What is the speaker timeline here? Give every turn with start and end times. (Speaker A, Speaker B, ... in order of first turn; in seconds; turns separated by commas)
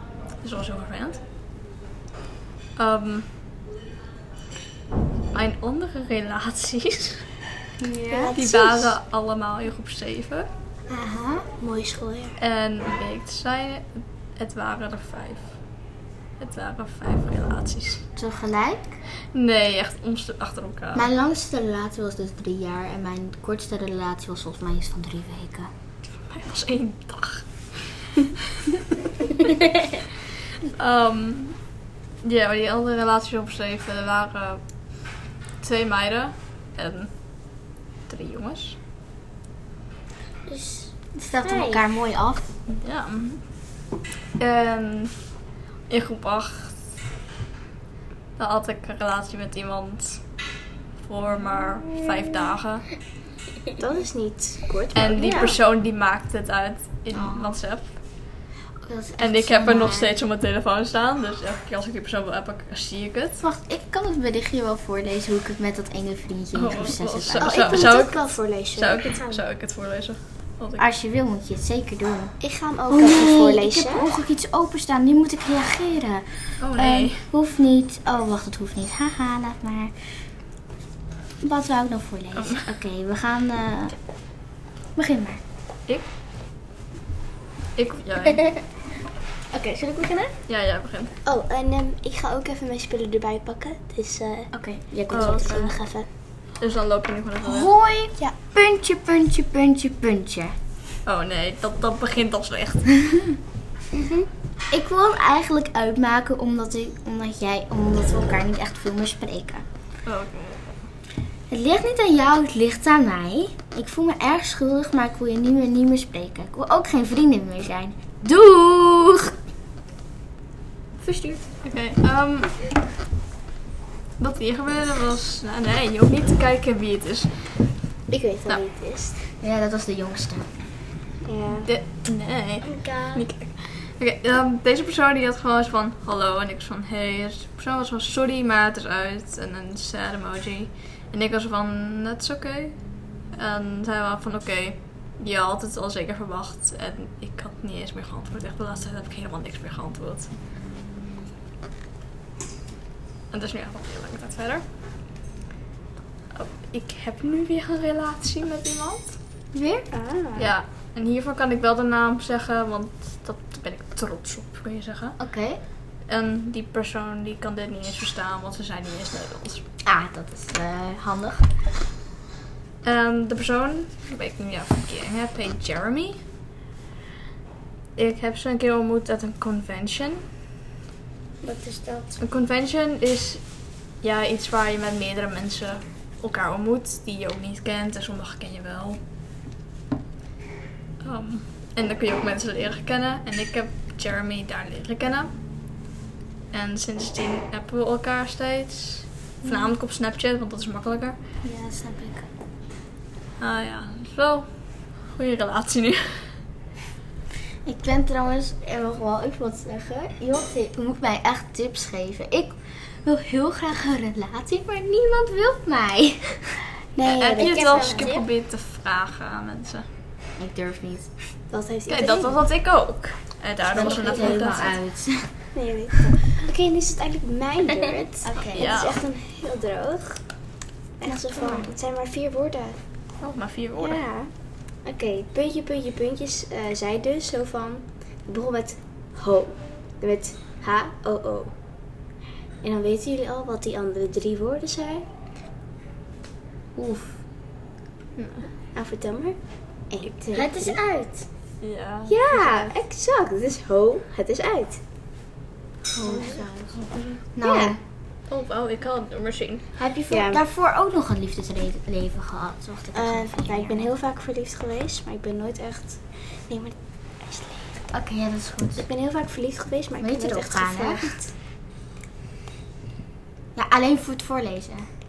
Speaker A: 0.4-1.2, Speaker A: 2.8-3.2, Speaker A: 5.3-7.2, Speaker B: 7.8-8.9, Speaker A: 8.3-10.5, Speaker B: 10.9-11.4, Speaker C: 11.6-12.4, Speaker A: 12.4-15.5, Speaker A: 16.4-18.0, Speaker B: 18.1-19.0, Speaker A: 19.3-21.1, Speaker B: 20.9-25.7, Speaker A: 26.1-28.3, Speaker A: 30.7-31.6, Speaker A: 32.2-37.1, Speaker A: 38.1-38.8, Speaker D: 40.5-41.8, Speaker B: 41.1-42.5, Speaker A: 42.7-43.4, Speaker A: 44.4-45.1, Speaker A: 45.9-46.8, Speaker A: 48.4-50.2, Speaker A: 51.0-52.9, Speaker C: 53.8-55.5, Speaker A: 54.9-57.9, Speaker D: 55.2-55.5, Speaker B: 57.1-57.6, Speaker B: 58.8-60.1, Speaker A: 59.2-63.4, Speaker B: 63.4-68.0, Speaker A: 66.5-70.8, Speaker C: 67.4-69.3, Speaker B: 70.8-72.4, Speaker C: 72.4-74.1, Speaker B: 72.9-79.9, Speaker A: 76.6-77.2, Speaker B: 81.4-84.0, Speaker A: 82.3-82.7, Speaker B: 85.0-85.4, Speaker A: 87.8-88.6, Speaker B: 89.5-90.3, Speaker A: 90.5-91.1, Speaker C: 91.2-94.5, Speaker B: 94.5-95.7, Speaker A: 95.1-95.8, Speaker C: 95.1-96.1, Speaker A: 96.6-97.7, Speaker B: 97.4-100.5, Speaker A: 101.0-103.1, Speaker D: 103.9-104.3, Speaker B: 104.7-109.6, Speaker A: 110.0-110.8, Speaker B: 111.5-119.3, Speaker B: 121.0-121.4, Speaker A: 121.6-122.7, Speaker A: 124.2-127.7, Speaker C: 128.1-129.2, Speaker B: 129.4-130.4, Speaker C: 131.2-131.7, Speaker A: 131.6-142.8, Speaker D: 132.6-133.2, Speaker A: 143.3-150.3, Speaker A: 153.3-154.6, Speaker A: 156.3-159.1, Speaker B: 159.5-159.9, Speaker C: 159.9-160.5, Speaker A: 160.4-165.2, Speaker B: 165.2-165.6, Speaker A: 166.1-169.6, Speaker B: 169.8-171.5, Speaker A: 172.8-176.2, Speaker A: 177.9-180.2, Speaker D: 181.4-182.2, Speaker A: 182.2-183.4, Speaker A: 184.0-189.0, Speaker A: 191.0-195.3, Speaker A: 196.5-201.2, Speaker B: 199.4-199.7, Speaker B: 201.4-202.3, Speaker A: 203.4-204.5, Speaker A: 205.1-206.3, Speaker B: 207.6-216.6, Speaker C: 216.9-218.1, Speaker A: 217.1-219.9, Speaker D: 217.3-218.3, Speaker B: 220.4-221.1, Speaker C: 221.5-222.4, Speaker A: 221.9-224.8, Speaker B: 223.7-225.3, Speaker C: 223.8-224.5, Speaker C: 225.5-230.2, Speaker B: 228.2-228.8, Speaker A: 228.5-229.0, Speaker C: 231.0-232.8, Speaker B: 231.0-231.7, Speaker A: 233.2-234.0, Speaker C: 233.8-234.3, Speaker C: 234.8-241.5, Speaker C: 242.6-245.1, Speaker B: 246.8-247.2, Speaker A: 248.2-248.5, Speaker C: 248.7-249.3, Speaker C: 249.9-250.8, Speaker D: 250.3-251.2, Speaker A: 251.6-252.7, Speaker C: 252.1-254.8, Speaker B: 255.9-256.7, Speaker A: 256.1-257.2, Speaker B: 257.4-257.8, Speaker D: 257.4-257.7, Speaker A: 258.3-259.6, Speaker B: 259.8-263.9, Speaker C: 260.1-260.4, Speaker C: 262.9-267.8, Speaker B: 267.9-268.9, Speaker C: 268.8-271.3, Speaker B: 270.0-271.1, Speaker B: 273.5-274.9